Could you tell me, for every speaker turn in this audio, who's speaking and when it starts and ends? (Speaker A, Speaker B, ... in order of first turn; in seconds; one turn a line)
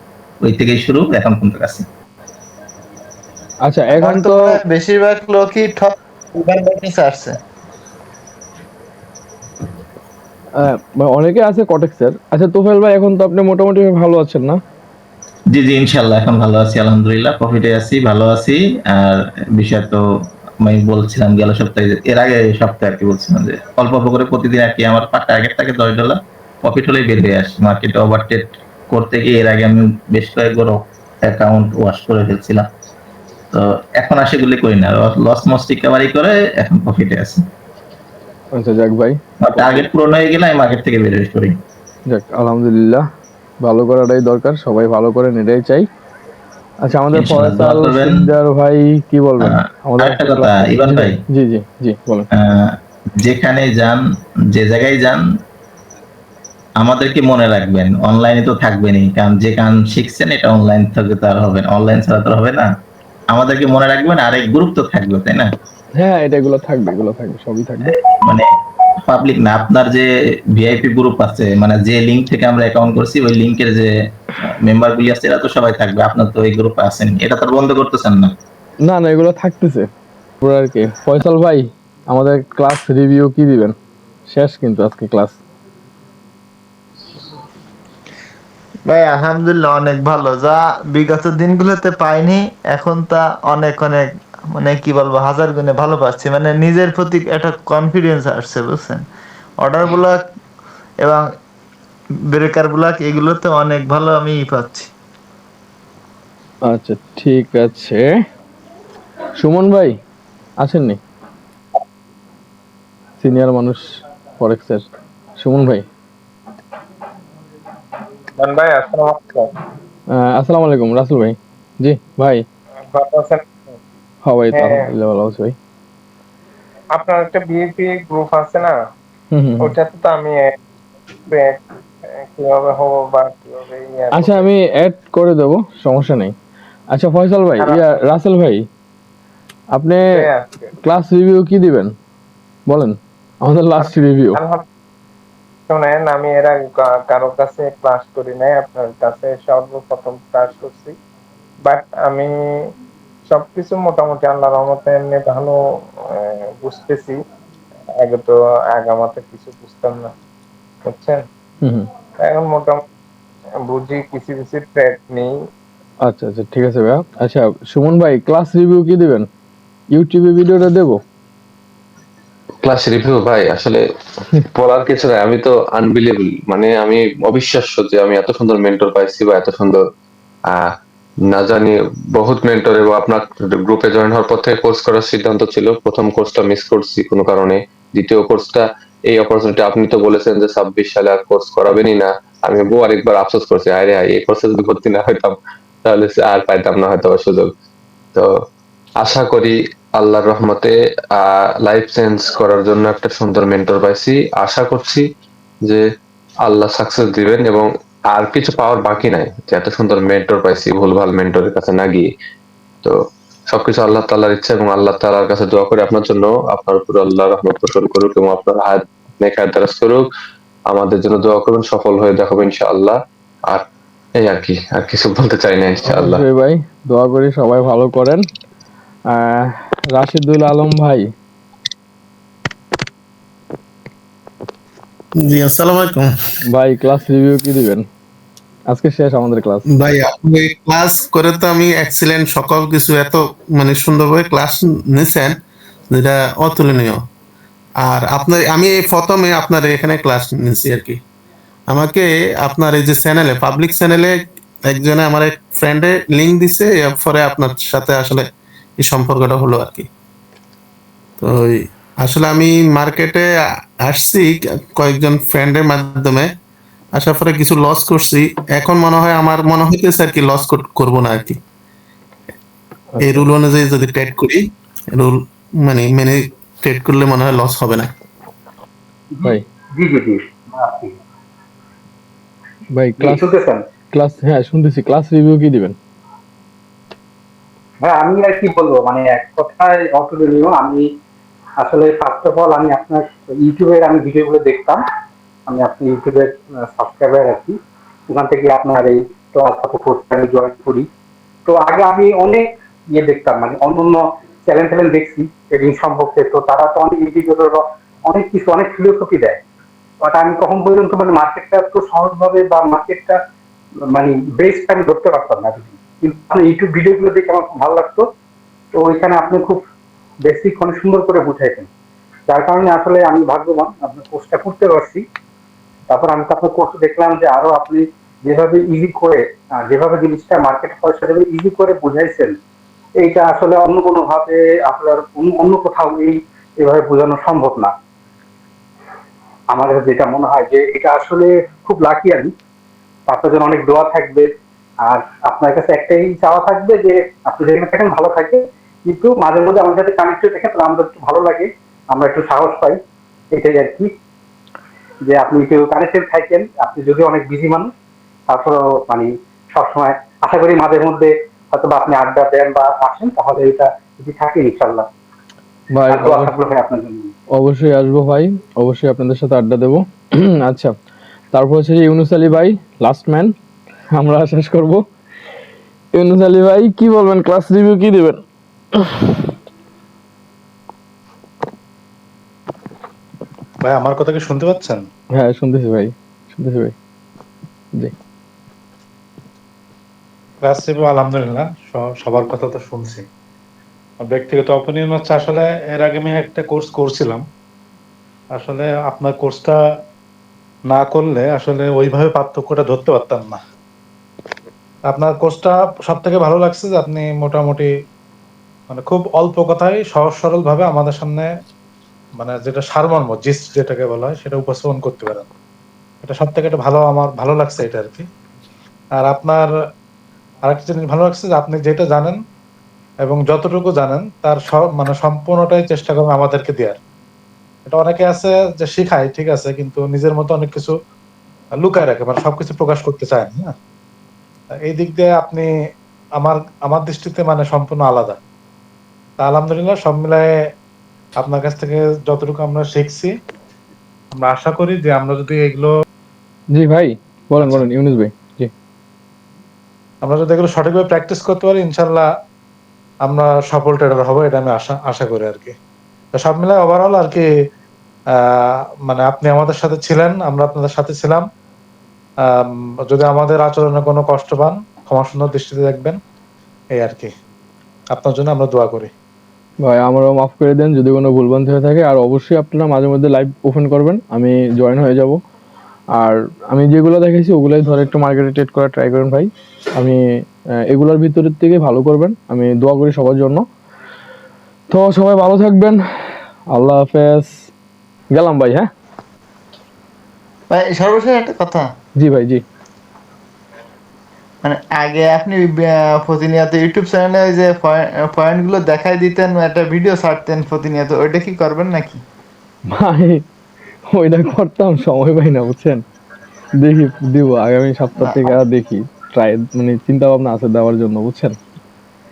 Speaker A: 0.4-1.9
Speaker B: 3.6-4.6
Speaker C: 3.9-7.3
Speaker B: 10.6-14.6
Speaker A: 15.5-20.0
Speaker A: 20.6-32.7
Speaker A: 33.5-37.4
Speaker B: 38.5-39.8
Speaker A: 39.4-41.6
Speaker B: 42.1-43.0
Speaker B: 43.6-45.9
Speaker B: 46.8-52.3
Speaker A: 47.1-48.3
Speaker A: 49.4-51.2
Speaker A: 52.3-55.2
Speaker A: 56.8-62.7
Speaker A: 63.3-65.5
Speaker B: 66.0-67.9
Speaker A: 67.8-68.4
Speaker A: 69.0-78.3
Speaker B: 78.8-79.9
Speaker B: 80.4-83.8
Speaker B: 84.3-85.4
Speaker C: 88.8-99.0
Speaker C: 99.6-100.2
Speaker C: 102.3-104.9
Speaker B: 106.7-108.0
Speaker B: 109.4-109.9
Speaker B: 110.6-111.0
Speaker B: 113.2-113.8
Speaker B: 114.4-114.9
Speaker B: 115.4-115.8
Speaker D: 118.4-119.5
Speaker B: 120.2-122.4
Speaker D: 122.9-123.6
Speaker B: 124.2-125.5
Speaker D: 124.5-124.9
Speaker D: 126.9-128.7
Speaker B: 129.3-129.7
Speaker D: 129.6-130.4
Speaker D: 131.3-131.6
Speaker D: 132.2-134.5
Speaker B: 134.1-136.3
Speaker B: 136.9-138.7
Speaker D: 137.6-137.8
Speaker B: 139.7-140.2
Speaker D: 140.1-140.7
Speaker B: 140.8-141.9
Speaker B: 142.7-144.4
Speaker D: 143.8-144.6
Speaker D: 145.7-150.9
Speaker D: 151.6-152.3
Speaker D: 153.3-155.6
Speaker D: 156.2-157.2
Speaker D: 158.0-160.1
Speaker D: 160.8-161.2
Speaker B: 161.6-161.9
Speaker D: 162.2-162.8
Speaker D: 163.6-165.3
Speaker B: 166.0-169.3
Speaker B: 169.9-171.0
Speaker E: 172.6-173.8
Speaker E: 174.5-179.8
Speaker E: 181.3-197.5
Speaker E: 199.0-205.1
Speaker E: 206.4-212.1
Speaker E: 213.5-220.0
Speaker E: 220.7-223.0
Speaker E: 224.2-226.2
Speaker B: 225.8-228.2
Speaker B: 229.1-231.1
Speaker F: 235.2-236.1
Speaker B: 236.4-237.8
Speaker B: 238.7-239.6
Speaker F: 239.7-245.3
Speaker F: 245.9-247.0
Speaker F: 247.8-251.0
Speaker F: 251.7-258.2
Speaker F: 258.8-259.9
Speaker F: 261.2-263.3
Speaker F: 263.8-266.3
Speaker F: 266.9-271.4
Speaker B: 272.9-273.3
Speaker F: 273.0-277.9
Speaker G: 279.1-281.0
Speaker B: 282.7-283.3
Speaker G: 283.0-283.6
Speaker B: 283.9-285.8
Speaker G: 287.8-290.9
Speaker G: 291.6-294.8
Speaker G: 295.5-297.5
Speaker G: 298.1-300.9
Speaker G: 301.4-309.4
Speaker G: 310.0-313.2
Speaker G: 313.9-318.0
Speaker G: 318.8-319.6
Speaker G: 320.2-321.7
Speaker G: 322.3-325.0
Speaker G: 325.9-332.3
Speaker G: 333.0-337.7
Speaker G: 339.5-342.3
Speaker G: 343.1-344.3
Speaker G: 344.8-352.8
Speaker G: 353.3-353.9
Speaker G: 355.0-357.7
Speaker G: 358.3-364.9
Speaker B: 365.7-366.4
Speaker G: 365.9-367.1
Speaker B: 367.3-370.7
Speaker B: 371.3-373.3
Speaker B: 373.9-374.8
Speaker B: 375.9-378.2
Speaker B: 378.7-379.3
Speaker H: 383.6-384.8
Speaker B: 385.1-386.7
Speaker H: 390.4-393.0
Speaker H: 394.0-397.2
Speaker H: 398.3-399.6
Speaker H: 400.7-403.4
Speaker H: 404.9-407.7
Speaker H: 408.7-411.3
Speaker H: 412.2-415.3
Speaker H: 416.0-418.1
Speaker H: 418.9-419.5
Speaker H: 420.4-422.2
Speaker H: 423.0-426.8
Speaker H: 427.6-430.7
Speaker H: 431.6-433.5
Speaker H: 434.6-435.5
Speaker H: 436.2-438.2
Speaker H: 439.2-440.3
Speaker H: 441.2-443.1
Speaker H: 444.2-445.7
Speaker B: 446.5-448.5
Speaker H: 450.0-452.1
Speaker H: 453.0-455.5
Speaker H: 456.1-457.2
Speaker H: 458.9-461.2
Speaker H: 462.9-466.0
Speaker H: 466.8-467.1
Speaker H: 467.9-468.9
Speaker B: 469.6-475.2
Speaker B: 475.9-480.0
Speaker B: 480.7-483.4
Speaker B: 484.7-485.8
Speaker B: 486.5-487.5
Speaker B: 488.1-488.7
Speaker C: 490.5-491.6
Speaker B: 492.0-492.4
Speaker C: 494.4-502.0
Speaker B: 502.7-503.2
Speaker B: 503.9-505.8
Speaker B: 506.6-511.4
Speaker C: 508.0-508.3